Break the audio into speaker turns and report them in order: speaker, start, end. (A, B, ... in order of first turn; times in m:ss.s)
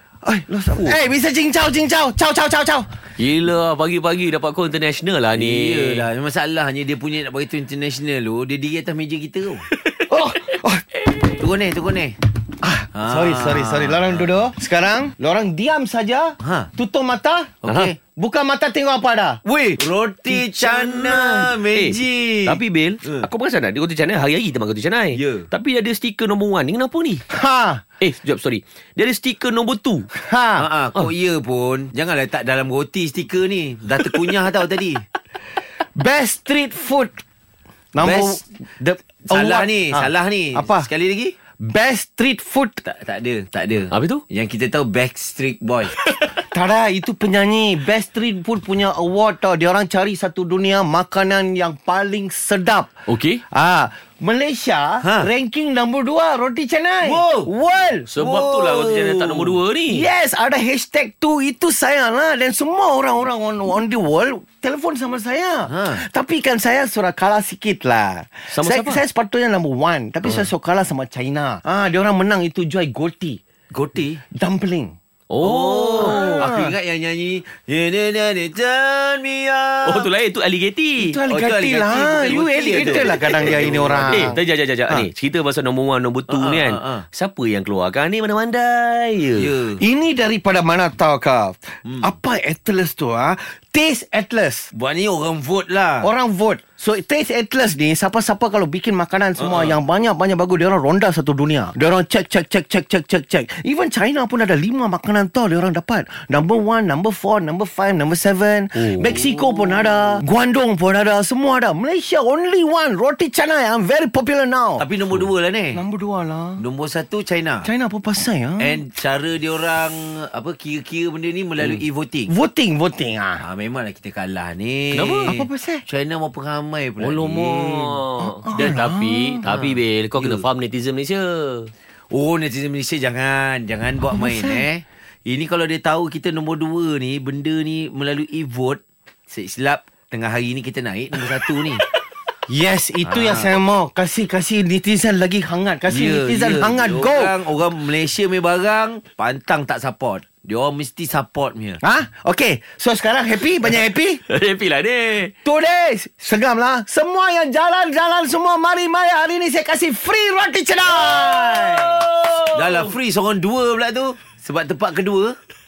0:00.2-0:02.9 A
0:03.2-0:06.1 B
0:05.3-0:09.7 C
0:09.8-0:10.3 B
0:10.1-0:10.8 A
0:11.4-0:12.2 C
0:12.6-0:19.4 A
0:12.9-0:14.4 C
0:16.4-0:16.7 C
0:17.6-0:18.0 C
0:17.6-0:17.9 B
0:19.4-0:23.3 C
0:20.6-0:27.2 B
0:25.1-0:25.5 C
0:27.3-0:27.8 A
0:28.0-0:30.1 B
0:30.1-0:30.7 A
0:30.6-0:35.0 C
0:35.9-0:37.2 A
0:37.9-0:40.9 A
0:38.0-0:38.4 C
0:39.3-0:41.4 C
0:41.6-0:42.8 A
0:42.8-0:46.0 C
0:43.9-0:44.2 B
0:46.0-0:46.3 B
0:46.3-0:52.9 A
0:53.1-0:53.4 B
0:53.5-0:58.1 A
0:55.0-0:55.3 C
0:57.0-0:57.5 C
0:58.1-1:00.0 B
0:58.2-0:59.6 C
0:59.9-1:13.4 A
1:05.7-1:06.0 C
1:08.5-1:09.0 B
1:13.7-1:14.2 C
1:14.3-1:14.9 A
1:15.3-1:16.5 B
1:15.4-1:20.1 C
1:16.0-1:16.7 A
1:19.8-1:21.2 B
1:21.0-1:25.0 A
1:21.3-1:24.3 C
1:23.0-1:29.5 B
1:26.3-1:27.0 C
1:29.4-1:29.8 C
1:29.8-1:34.7 A
1:31.8-1:32.1 C
1:34.7-1:36.1 C
1:36.0-1:54.9 A
1:39.4-1:39.8 C
1:54.8-1:55.8 C
1:55.7-1:56.6 A
1:56.6-1:57.7 C
1:57.6-1:58.8 A
1:58.6-2:02.3 C
2:02.3-2:03.4 A
2:03.4-2:08.0 C
2:04.9-2:05.4 B
2:05.3-2:05.8 A
2:07.0-2:11.7 B
2:08.2-2:09.4 A
2:09.4-2:10.4 C
2:12.1-2:21.8 C
2:14.1-2:14.6 A
2:22.5-2:27.4 A
2:23.0-2:23.6 C
2:25.9-2:31.8 C
2:31.8-2:34.2 A
2:33.7-2:35.3 B
2:35.4-2:42.0 A
2:41.0-2:42.9 B
2:42.5-2:45.4 C